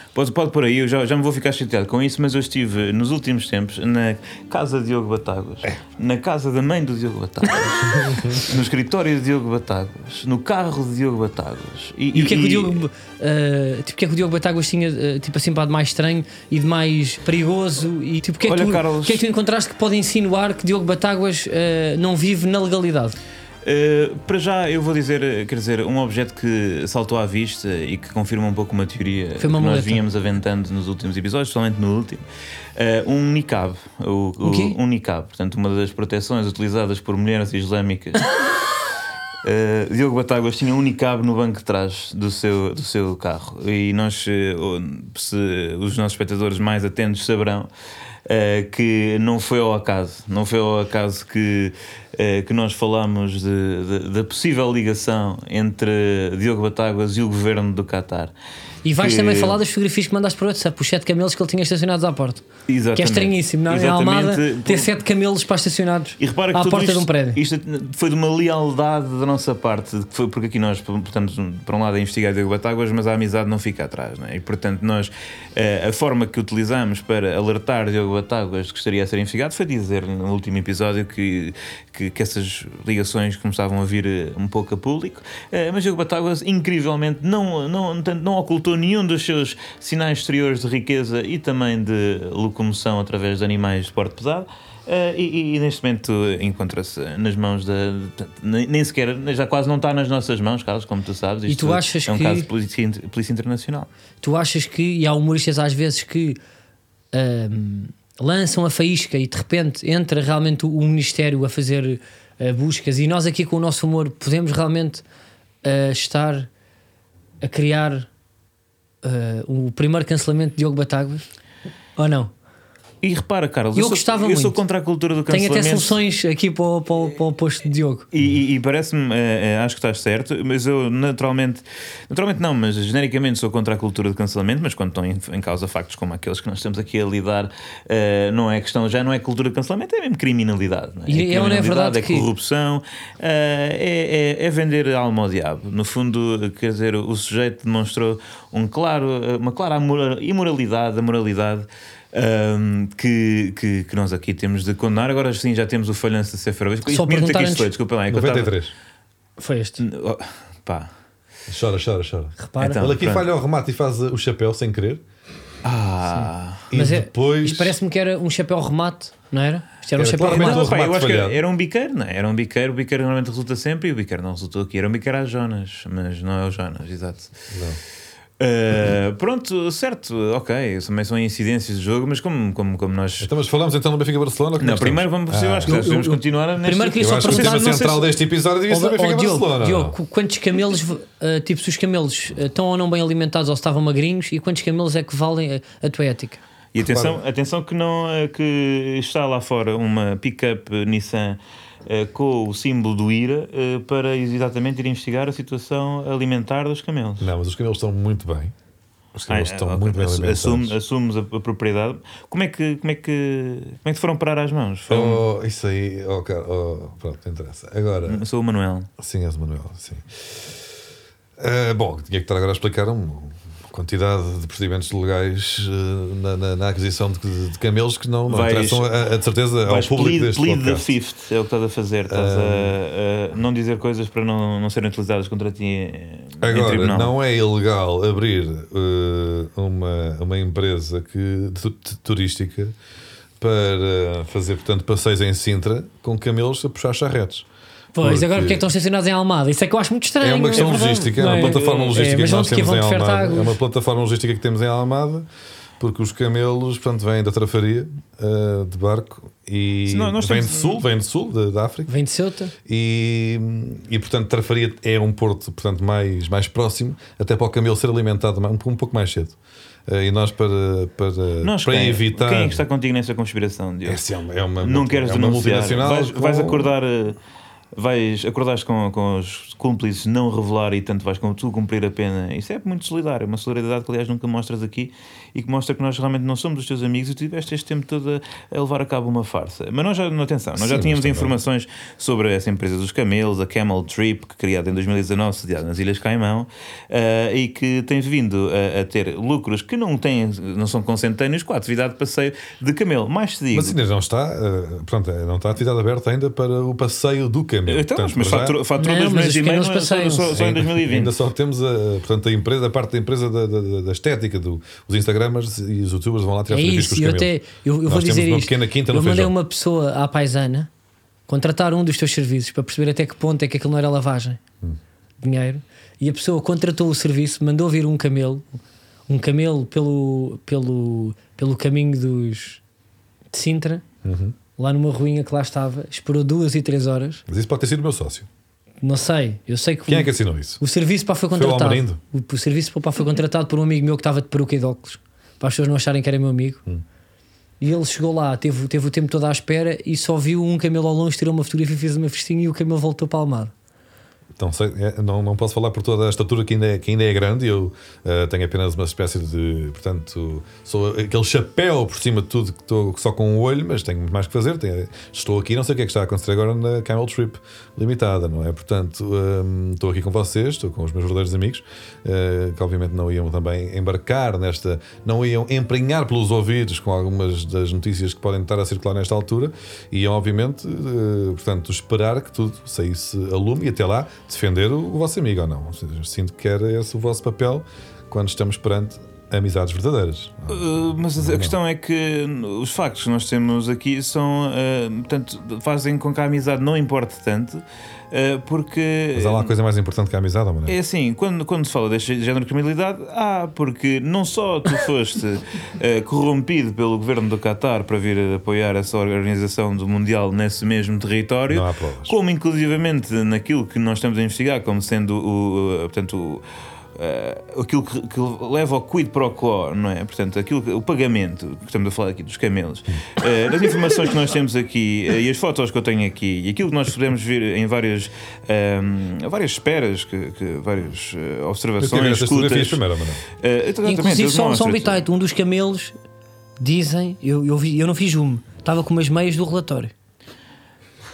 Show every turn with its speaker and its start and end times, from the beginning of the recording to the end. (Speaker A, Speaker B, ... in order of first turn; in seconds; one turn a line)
Speaker A: 0.1-12.8
Speaker B: 8.0-8.4
Speaker C: 12.1-23.1
Speaker A: 18.4-19.2
Speaker A: 23.6-32.2
Speaker C: 29.4-30.0
Speaker A: 32.8-38.3
Speaker C: 34.4-34.8
Speaker A: 39.4-47.7
Speaker A: 48.3-58.3
Speaker C: 58.8-62.4
Speaker A: 59.0-59.6
Speaker A: 62.7-64.9
Speaker C: 63.0-67.4
Speaker A: 66.2-103.9
Speaker C: 101.5-102.5
Speaker C: 104.2-106.4
Speaker C: 107.1-115.0
Speaker C: 115.6-116.5
Speaker C: 117.4-118.1
Speaker C: 119.0-121.2
Speaker C: 122.0-122.3
Speaker A: 123.0-126.0
Speaker C: 123.8-124.6
Speaker C: 125.3-128.1
Speaker A: 128.1-158.5
Speaker C: 141.1-142.3
Speaker C: 156.9-157.7
Speaker B: 158.1-158.7
Speaker C: 159.4-159.8
Speaker A: 159.8-160.9
Speaker B: 161.5-165.0
Speaker C: 162.4-162.8
Speaker A: 162.6-163.3
Speaker A: 165.6-166.6
Speaker B: 166.7-167.8
Speaker C: 166.7-170.7
Speaker B: 170.0-171.4
Speaker A: 170.2-177.3
Speaker B: 177.5-177.8
Speaker A: 178.4-183.3
Speaker B: 183.2-185.9
Speaker A: 184.6-187.8
Speaker C: 185.7-188.1
Speaker B: 187.0-189.9
Speaker C: 188.7-196.4
Speaker A: 196.7-207.3
Speaker B: 196.9-197.2
Speaker B: 207.2-208.5
Speaker B: 209.1-210.7
Speaker A: 209.3-215.2
Speaker B: 214.9-218.2
Speaker A: 218.1-218.9
Speaker B: 219.0-220.5
Speaker B: 221.4-230.9
Speaker A: 228.3-229.0
Speaker A: 229.6-237.1
Speaker B: 232.1-232.7
Speaker B: 236.4-242.7
Speaker B: 243.4-247.5
Speaker C: 247.9-253.6
Speaker B: 248.0-248.6
Speaker B: 250.2-255.3
Speaker A: 250.5-252.3
Speaker B: 255.8-261.9
Speaker A: 259.9-260.8
Speaker C: 261.9-262.5
Speaker B: 262.6-269.4
Speaker B: 269.9-272.6
Speaker A: 271.4-274.0
Speaker B: 273.8-276.7
Speaker A: 274.6-277.2
Speaker A: 277.7-303.8
Speaker B: 290.6-291.3
Speaker B: 303.5-308.6
Speaker A: 307.7-311.1
Speaker C: 308.8-310.4
Speaker B: 310.3-317.3
Speaker C: 316.5-320.7
Speaker B: 317.9-319.3
Speaker C: 321.3-324.4
Speaker C: 325.2-328.4
Speaker C: 329.1-332.6
Speaker C: 333.3-333.8
Speaker B: 334.0-334.3
Speaker C: 334.6-337.2
Speaker B: 337.3-338.3
Speaker C: 338.8-346.6
Speaker B: 339.9-340.6
Speaker B: 341.3-342.0
Speaker C: 347.6-353.5
Speaker B: 354.4-391.6
Speaker A: 390.5-399.5
Speaker B: 399.1-400.8
Speaker A: 400.7-416.4
Speaker B: 411.5-412.1
Speaker A: 416.9-432.8
Speaker B: 431.8-433.2
Speaker A: 433.4-435.0
Speaker C: 433.9-435.9
Speaker C: 436.6-439.9